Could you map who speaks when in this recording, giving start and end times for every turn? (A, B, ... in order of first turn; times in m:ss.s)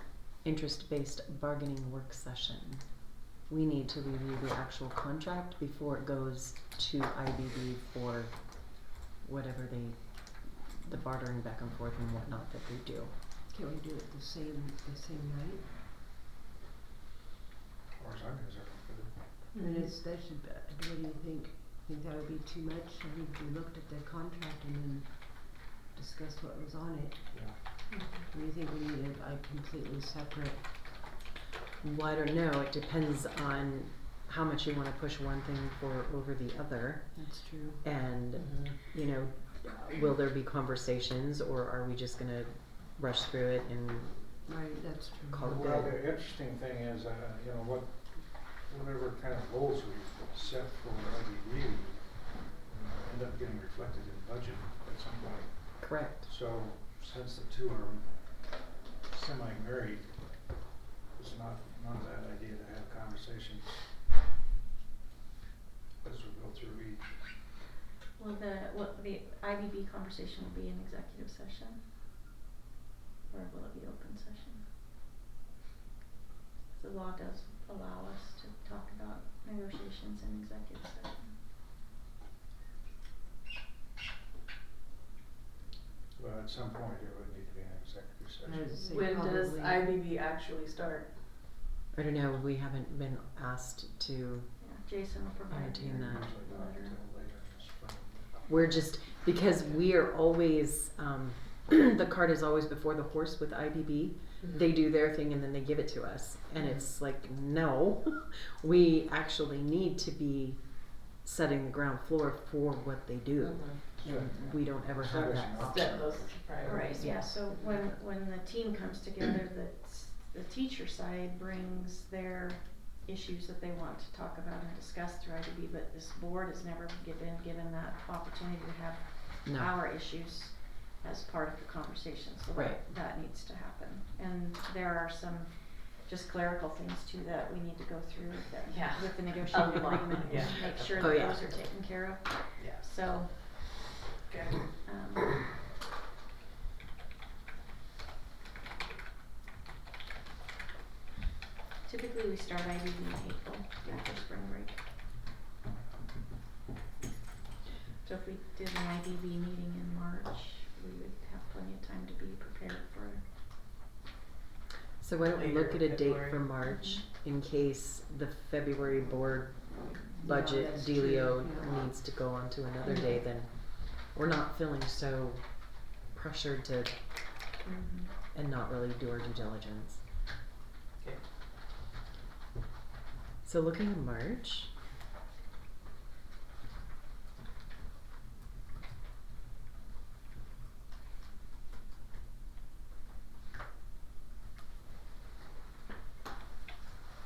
0:00.4-0:13.1 A
0:13.4-0:15.7 B
0:17.9-0:19.4 C
0:19.6-0:31.0 B
0:27.3-0:27.6 C
0:27.9-0:28.3 D
0:31.8-0:44.5 A
0:37.1-0:37.8 B
0:38.4-0:38.7 D
0:44.5-0:45.5 B
0:45.3-0:46.0 A
0:45.4-1:00.6 C
0:55.8-0:56.2 A
1:01.1-1:03.9 C
1:06.0-1:07.2 C
1:08.2-1:11.8 E
1:13.3-1:14.6 E
1:16.7-1:21.3 E
1:26.2-1:28.7 C
1:28.4-1:29.9 B
1:28.8-1:31.1 D
1:31.9-1:34.5 A
1:34.6-1:37.0 E
1:35.5-1:36.4 A
1:36.1-1:39.1 C
1:38.5-1:56.1 A
1:53.4-1:53.8 D
1:54.0-1:57.0 C
1:55.6-1:57.1 D
1:56.6-2:23.9 E
1:57.0-1:57.3 A
2:09.5-2:09.8 A
2:12.5-2:12.8 A
2:18.7-2:21.4 D
2:21.0-2:21.5 A
2:22.6-2:22.9 D
2:24.3-2:24.8 D
2:24.7-2:25.4 E
2:31.8-2:34.8 E
2:38.0-2:43.2 E
2:45.0-2:57.0 A
2:45.3-2:46.5 D
2:46.6-2:47.0 E
2:50.2-2:51.9 B
2:57.6-2:58.1 E
2:58.3-3:00.0 A
3:03.4-3:04.7 A